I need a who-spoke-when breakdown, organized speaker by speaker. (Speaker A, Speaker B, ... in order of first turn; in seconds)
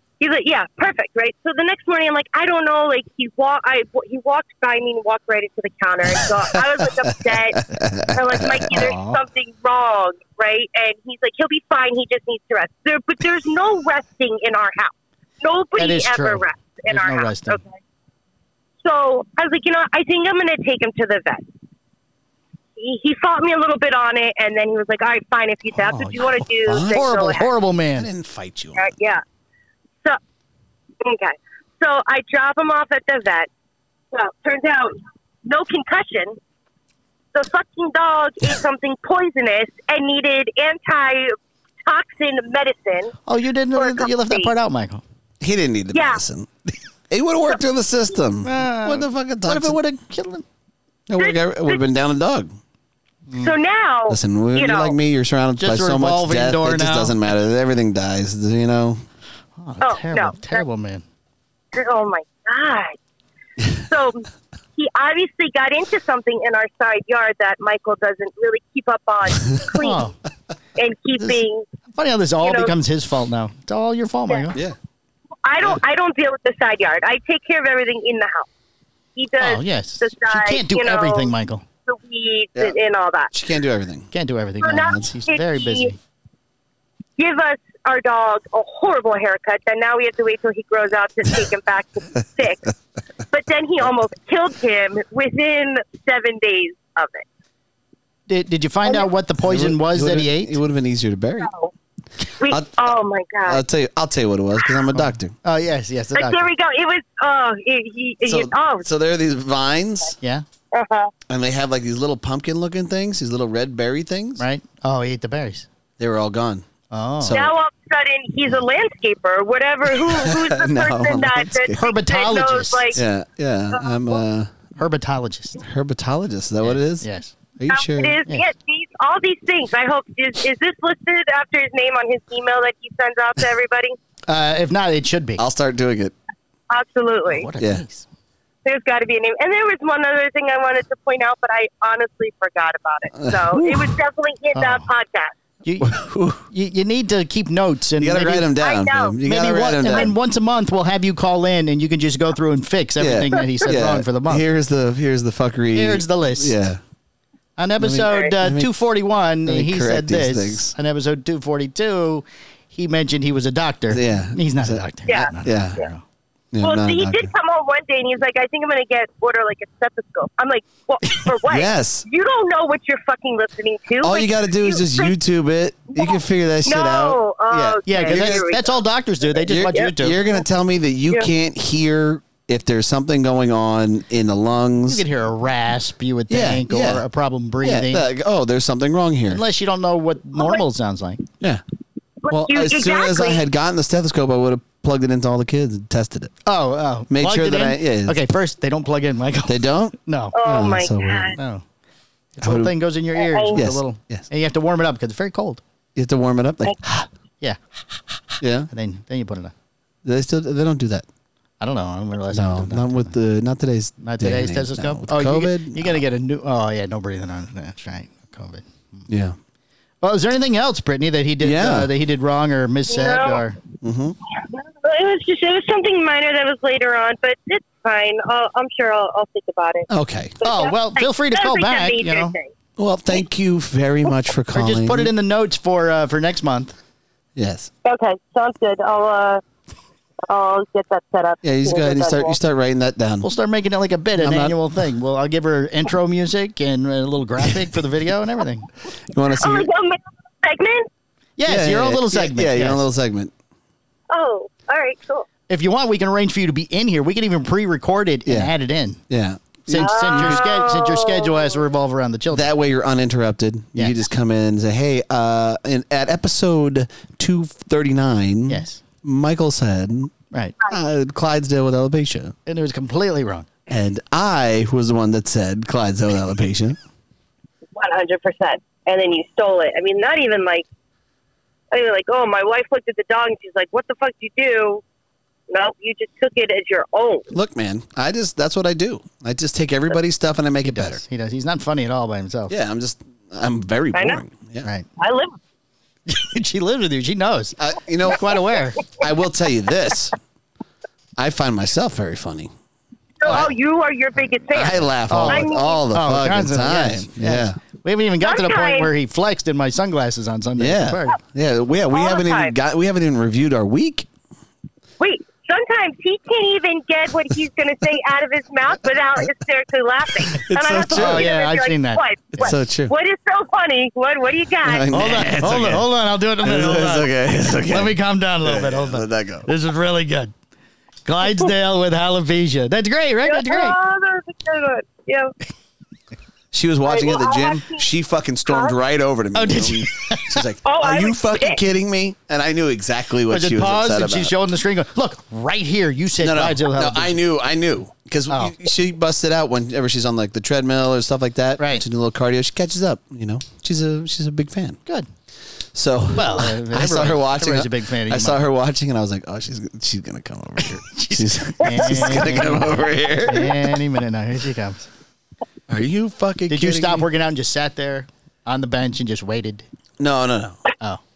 Speaker A: 0.2-17.7, 18.8-21.5, 22.8-27.5, 28.8-29.2, 31.0-33.5, 34.1-36.4, 37.3-43.2, 43.8-44.5, 45.9-46.2, 51.2-51.8, 53.4-55.0, 59.8-60.6, 61.7-63.0, 63.6-70.0, 70.8-71.7, 72.4-72.7, 75.4-78.5, 79.2-81.3, 81.9-83.3, 84.6-85.9, 87.2-92.7, 93.3-97.2, 101.4-101.7, 102.4-103.6, 106.2-108.9, 110.7-111.1, 117.3-123.0, 123.7-124.2, 127.7-134.0, 136.7-137.5, 138.7-145.3, 148.6-149.2, 165.1-165.8, 166.6-175.1, 176.0-178.8, 192.2-193.4, 200.3-201.4, 203.2-203.6, 222.9-223.4, 224.4-229.9, 230.4-232.5, 237.8-239.4, 240.3-242.4, 249.4-250.9, 254.1-255.3, 259.8-261.6, 277.8-280.7, 281.7-284.8, 285.5-287.3, 293.9-294.2, 295.0-295.4, 303.2-305.8, 308.2-308.9, 311.9-312.5, 315.0-325.2, 333.2-335.3, 336.9-337.9, 338.5-338.7, 340.6-341.6, 361.7-362.3
Speaker B: 6.2-8.8, 26.6-27.1, 28.0-28.9, 45.4-49.8, 51.1-52.5, 54.1-59.0, 83.3-84.1, 99.4-101.5, 103.5-105.3, 108.2-110.2, 111.3-114.4, 116.0-116.7, 117.2-117.5, 120.0-121.8, 123.0-124.5, 125.6-127.1, 127.6-128.2, 135.4-136.1, 143.2-143.9, 148.0-150.1, 153.0-156.8, 157.8-158.7, 159.4-160.7, 163.9-164.8, 165.4-165.8, 166.5-167.3, 171.4-172.1, 174.0-178.5, 179.4-185.1, 186.3-187.1, 187.6-189.4, 192.3-196.3, 197.1-198.2, 199.5-201.4, 202.4-202.7, 203.5-204.3, 206.0-207.1, 208.4-208.7, 210.0-211.1, 212.3-216.0, 219.1-219.4, 221.4-221.9, 223.8-224.2, 229.9-230.4, 232.8-235.1, 237.4-237.7, 241.4-243.2, 244.2-244.6, 249.1-249.7, 251.5-253.3, 258.3-258.5, 259.1-260.4, 262.3-270.1, 270.7-272.4, 273.7-276.8, 287.3-291.0, 292.5-294.7, 297.6-300.2, 301.2-302.5, 304.5-307.6, 310.6-314.1, 320.3-321.3, 322.4-322.9, 324.6-325.9, 326.4-329.5, 336.5-344.3, 346.2-354.8, 355.7-363.8, 365.7-367.1, 370.0-370.6
Speaker C: 8.7-9.2, 15.8-17.6, 25.8-26.4, 26.9-28.1, 43.3-45.0, 48.4-50.4, 53.3-53.6, 55.6-57.1, 59.6-61.0, 69.8-70.2, 71.9-74.6, 79.4-81.6, 84.1-86.0, 98.3-100.6, 104.9-106.5, 114.4-115.7, 116.9-117.4, 121.8-123.0, 124.8-125.6, 126.6-127.3, 134.3-135.4, 137.3-138.1, 144.6-144.8, 145.6-148.5, 149.2-154.4, 155.7-156.7, 157.6-166.0, 177.9-180.3, 184.9-188.1, 189.3-191.2, 196.4-200.3, 201.3-201.6, 202.4-205.6, 208.7-209.5, 211.6-213.1, 214.0-219.1, 220.0-223.6, 230.4-232.4, 234.5-236.7, 243.2-248.7, 251.4-252.8, 255.5-259.0, 259.7-262.5, 268.5-268.8, 272.5-273.5, 290.6-292.5, 296.1-298.8, 305.1-311.2, 320.9-322.0, 324.9-330.3, 331.1-333.8, 339.4-340.4, 343.3-347.2, 348.3-348.6, 351.6-351.8, 356.1-358.4, 360.9-364.9, 366.5-369.6